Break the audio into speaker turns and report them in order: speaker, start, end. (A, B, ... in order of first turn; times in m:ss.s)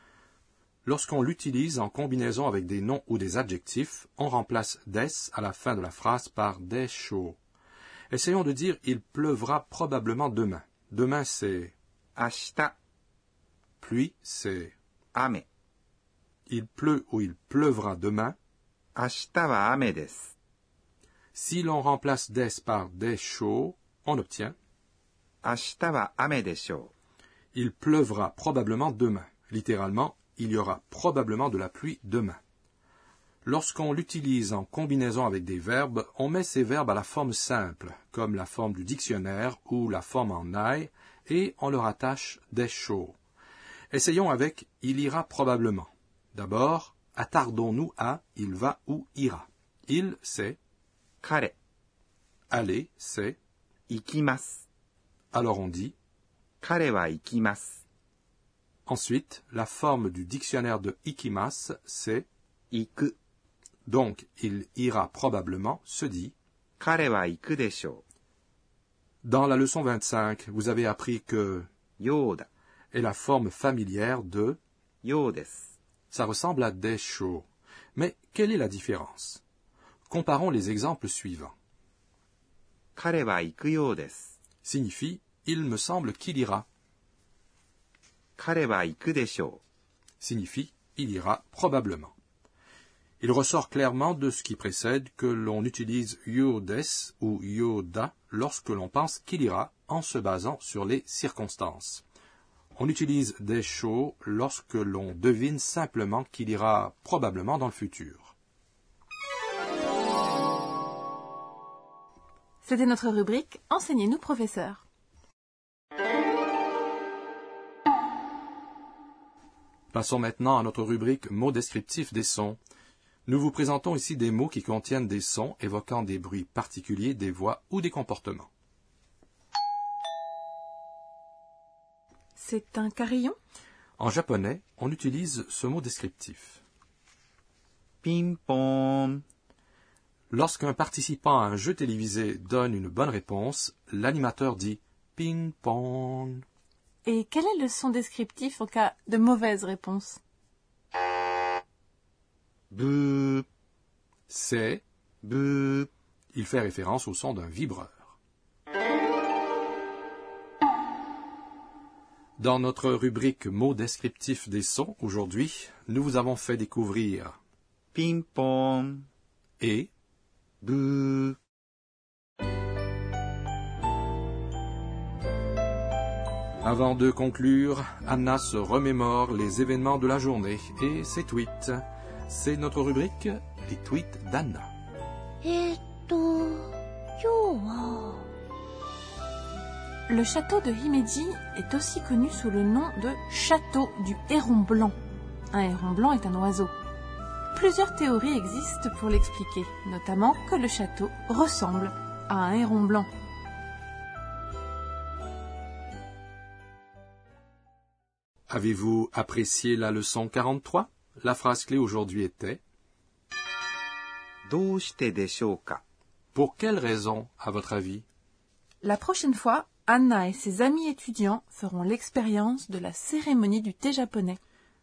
0:00.8-0:07.4 A
0:08.1-0:11.7 A
0:12.2-0:12.8 B
0:13.8-0:14.7 A
0:15.1-0:15.5 B
0:16.5-0:18.4 A
0:19.0-0:20.3 B
0:21.4-0:24.6 A
0:25.4-0:26.9 B
0:27.5-0:32.4 A
0:33.4-0:43.2 A
0:43.9-0:50.6 A
0:51.2-0:51.6 B
0:52.5-0:53.4 A
0:53.9-0:54.6 B
0:55.3-0:55.9 A
0:56.6-0:57.8 B
0:58.9-1:02.3 A
1:02.7-1:03.2 B
1:03.9-1:06.3 A
1:06.8-1:08.0 B
1:09.2-1:11.7 A
1:12.0-1:12.5 B
1:12.9-1:14.6 A
1:15.0-1:15.7 B
1:16.1-1:19.4 A
1:20.1-1:21.5 A
1:23.0-1:24.4 B
1:24.6-1:26.6 A
1:28.4-1:29.6 B
1:30.2-1:32.1 A
1:33.2-1:42.0 A
1:42.8-1:48.3 A
1:52.6-1:54.8 C
1:59.9-2:02.6 A
2:03.3-2:08.5 A
2:12.4-2:13.4 C
2:14.0-2:16.6 A
2:18.0-2:19.2 B
2:20.3-2:26.4 A
2:27.0-2:30.2 C
2:32.7-2:33.5 B
2:34.3-2:34.8 A
2:35.2-2:35.9 B
2:36.3-2:38.0 A
2:42.4-2:47.4 A
2:47.9-2:49.1 B
2:49.6-2:49.9 A
2:50.6-2:51.4 B
2:56.6-3:04.7 A
3:05.4-3:08.2 D
3:10.1-3:15.0 C
3:15.5-3:16.7 C
3:17.5-3:23.1 C
3:28.5-3:32.6 A
3:34.5-3:35.8 B
3:36.3-3:38.0 A
3:38.8-3:44.4 C